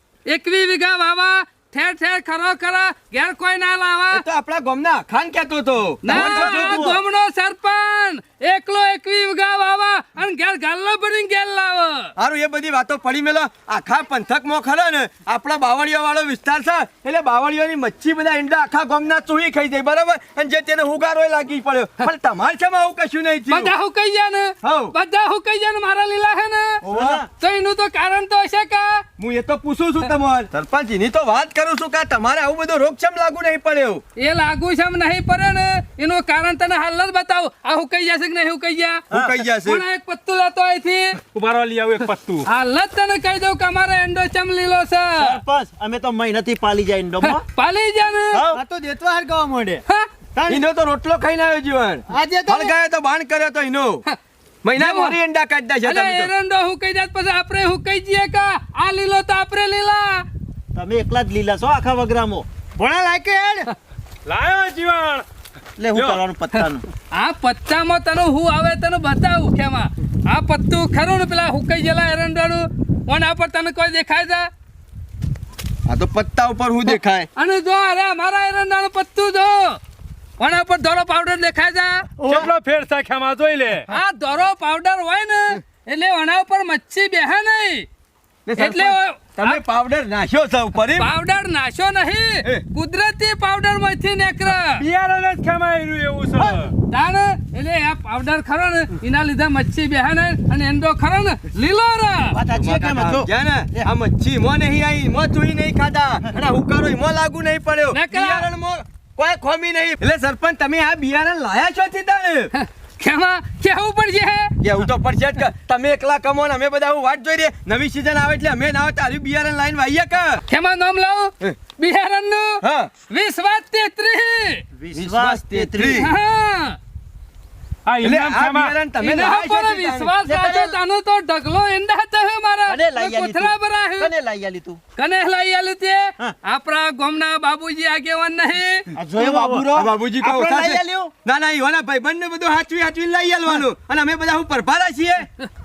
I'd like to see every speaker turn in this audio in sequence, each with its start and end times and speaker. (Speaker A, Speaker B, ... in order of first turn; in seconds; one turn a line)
Speaker A: 0.3-4.2
Speaker B: 4.1-7.0
Speaker A: 6.0-12.1
Speaker C: 6.1-6.9
Speaker B: 12.2-23.7
Speaker A: 23.5-26.8
Speaker B: 24.6-24.9
Speaker B: 26.8-27.2
Speaker C: 26.8-27.3
Speaker A: 27.4-29.0
Speaker B: 29.2-34.0
Speaker A: 34.2-41.2
Speaker B: 39.1-39.8
Speaker D: 41.3-42.5
Speaker A: 42.5-45.4
Speaker C: 45.2-47.4
Speaker A: 47.2-48.4
Speaker C: 48.3-48.6
Speaker E: 48.5-49.8
Speaker B: 50.5-54.0
Speaker E: 52.1-52.7
Speaker B: 54.6-56.3
Speaker A: 54.7-55.2
Speaker A: 55.8-60.2
Speaker C: 60.7-62.5
Speaker E: 62.8-63.7
Speaker D: 64.2-65.2
Speaker C: 65.8-66.8
Speaker D: 65.9-66.2
Speaker A: 66.5-74.5
Speaker B: 75.8-77.3
Speaker A: 76.9-79.8
Speaker A: 80.4-82.0
Speaker D: 82.2-83.9
Speaker A: 83.9-87.9
Speaker B: 88.5-91.1
Speaker A: 88.5-89.6
Speaker A: 90.9-94.8
Speaker D: 94.6-96.7
Speaker A: 96.9-102.4
Speaker C: 102.3-103.9
Speaker B: 102.5-112.5
Speaker A: 107.9-108.5
Speaker A: 112.5-114.5
Speaker B: 114.6-120.4
Speaker A: 120.5-124.6
Speaker B: 122.6-122.9
Speaker C: 124.8-126.1
Speaker B: 124.9-126.1
Speaker A: 125.9-126.8
Speaker D: 127.8-128.7
Speaker B: 128.0-130.1
Speaker A: 129.0-134.1
Speaker C: 130.2-130.8
Speaker C: 132.7-134.8
Speaker A: 135.0-138.8
Speaker C: 139.0-141.1
Speaker E: 139.2-139.6
Speaker B: 139.2-145.2